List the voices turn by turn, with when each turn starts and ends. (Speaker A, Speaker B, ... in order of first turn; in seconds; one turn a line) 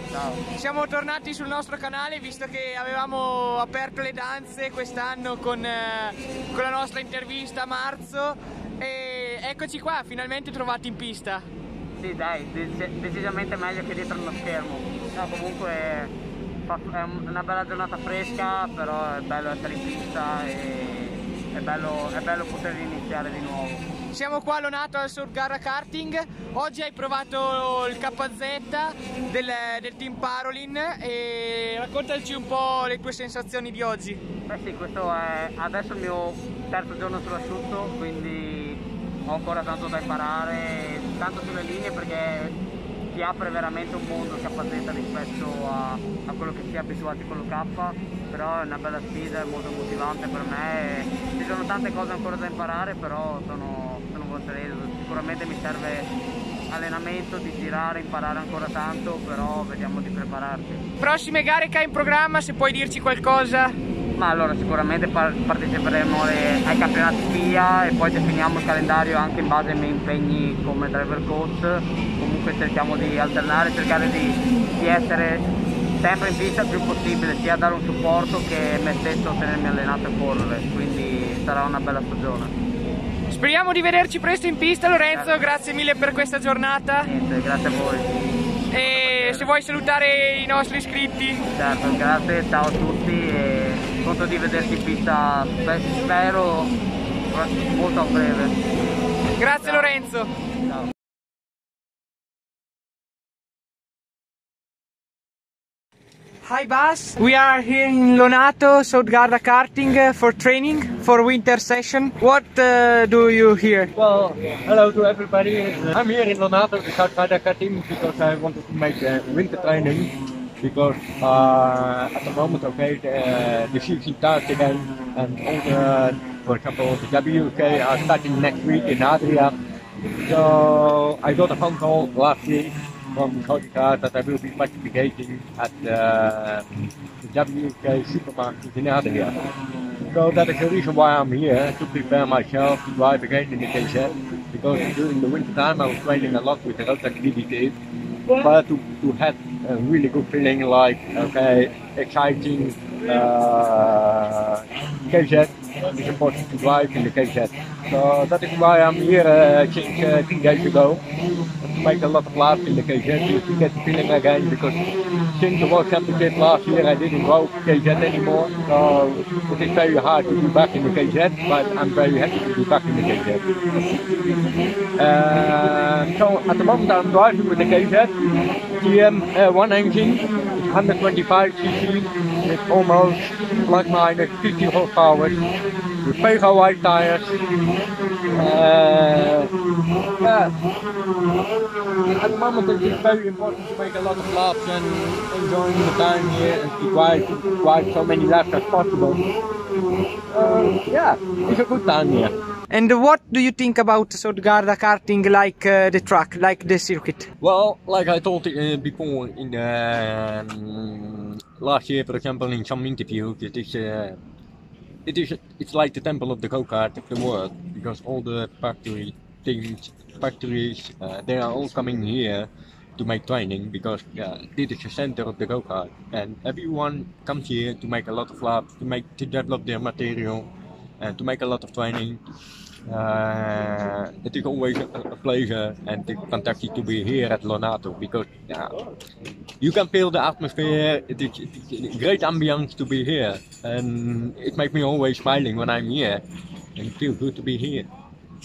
Speaker A: 0.1-0.4
Speaker B: 0.5-11.4
Speaker A: 12.0-16.1
Speaker A: 16.7-23.8
Speaker B: 24.1-34.2
Speaker A: 34.5-42.5
Speaker A: 43.1-56.1
Speaker A: 56.7-60.8
Speaker B: 61.0-63.8
Speaker A: 64.2-75.5
Speaker A: 76.0-82.5
Speaker B: 83.3-87.1
Speaker A: 85.1-85.4
Speaker A: 87.0-88.1
Speaker B: 88.7-91.4
Speaker A: 88.8-89.5
Speaker A: 91.5-96.7
Speaker A: 97.3-98.5
Speaker B: 99.4-100.3
Speaker A: 99.6-99.9
Speaker B: 106.4-113.9
Speaker C: 113.9-129.6
Speaker C: 130.2-139.3
Speaker C: 140.1-147.8
Speaker C: 148.3-161.0
Speaker C: 161.6-164.8
Speaker C: 165.3-173.4
Speaker C: 175.0-178.2
Speaker C: 178.8-185.4
Speaker C: 186.0-187.4
Speaker C: 188.3-189.5
Speaker C: 190.2-190.6
Speaker C: 192.1-199.3
Speaker C: 200.3-202.3
Speaker B: 202.7-207.3
Speaker C: 207.4-214.2
Speaker C: 215.1-230.5
Speaker C: 231.0-232.2
Speaker C: 232.9-238.8
Speaker C: 239.6-246.2
Speaker C: 246.8-247.9